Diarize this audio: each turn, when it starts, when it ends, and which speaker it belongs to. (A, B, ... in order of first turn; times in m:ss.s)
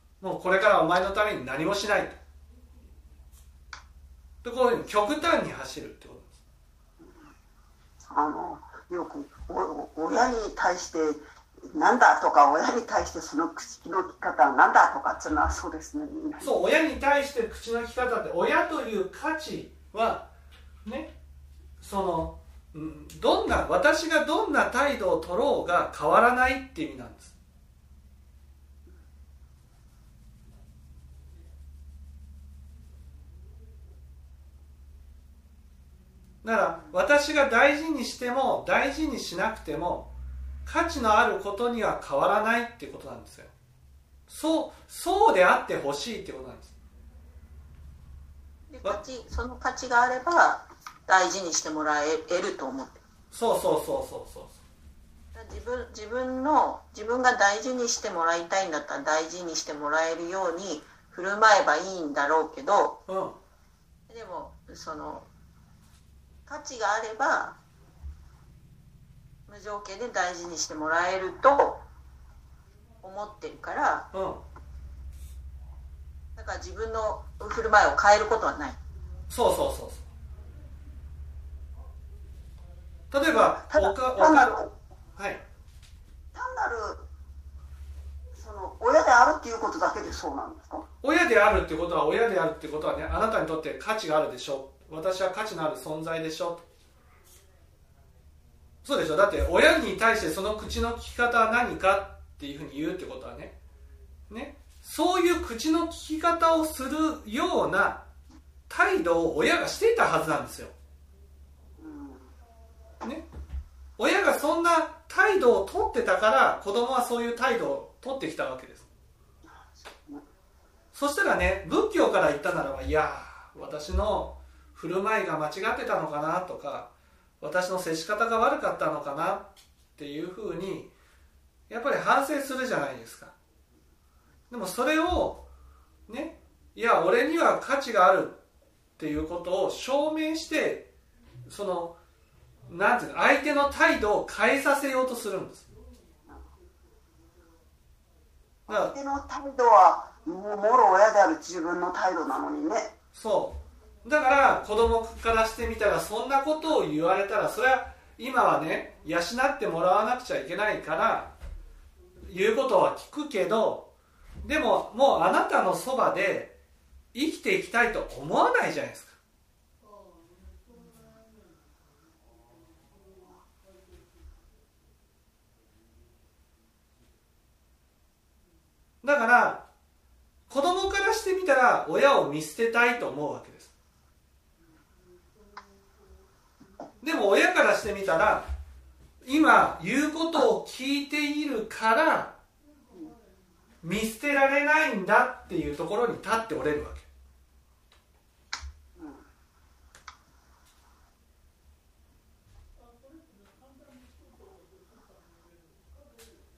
0:00.2-0:02.2 A
0:04.4-0:06.4 A
0:08.1-0:16.5 B
0:16.4-0:20.3 A
0:20.8-0:21.1 A
0:21.8-0:27.3 A
0:36.4-0:40.1 A
0:40.6-0:43.5 A
0:44.3-0:46.7 A
0:48.7-0:53.0 C
0:53.3-0:54.6 A
0:55.3-1:03.0 C
1:03.1-1:03.4 A
1:04.1-1:05.3 C
1:06.5-1:07.6 C
1:09.5-1:11.8 C
1:13.0-1:14.1 C
1:14.1-1:14.4 A
1:16.4-1:18.8 C
1:19.3-1:20.0 A
1:23.1-1:24.6 A
1:23.3-1:24.7 B
1:26.3-1:27.0 B
1:28.3-1:30.8 B
1:31.0-1:36.6 A
1:38.8-1:43.6 A
1:44.3-1:48.0 A
1:48.7-1:50.7 A
1:51.8-1:52.3 B
1:54.0-1:58.9 A
1:59.8-2:00.2 B
2:00.9-2:10.9 A
2:11.7-2:13.3 A
2:14.5-2:15.5 A
2:16.1-2:18.4 A
2:19.0-2:20.9 A
2:21.5-2:22.0 A
2:22.7-2:25.7 A
2:28.7-2:28.9 A
2:28.7-2:32.9 B
2:33.1-2:41.3 A
2:42.2-2:43.9 A
2:44.4-2:46.6 A
2:47.1-2:49.2 A
2:50.8-2:51.2 C
2:59.0-2:59.6 A
3:00.5-3:03.7 A
3:07.0-3:08.5 A
3:09.2-3:12.4 A
3:13.8-3:17.1 A
3:19.0-3:19.2 B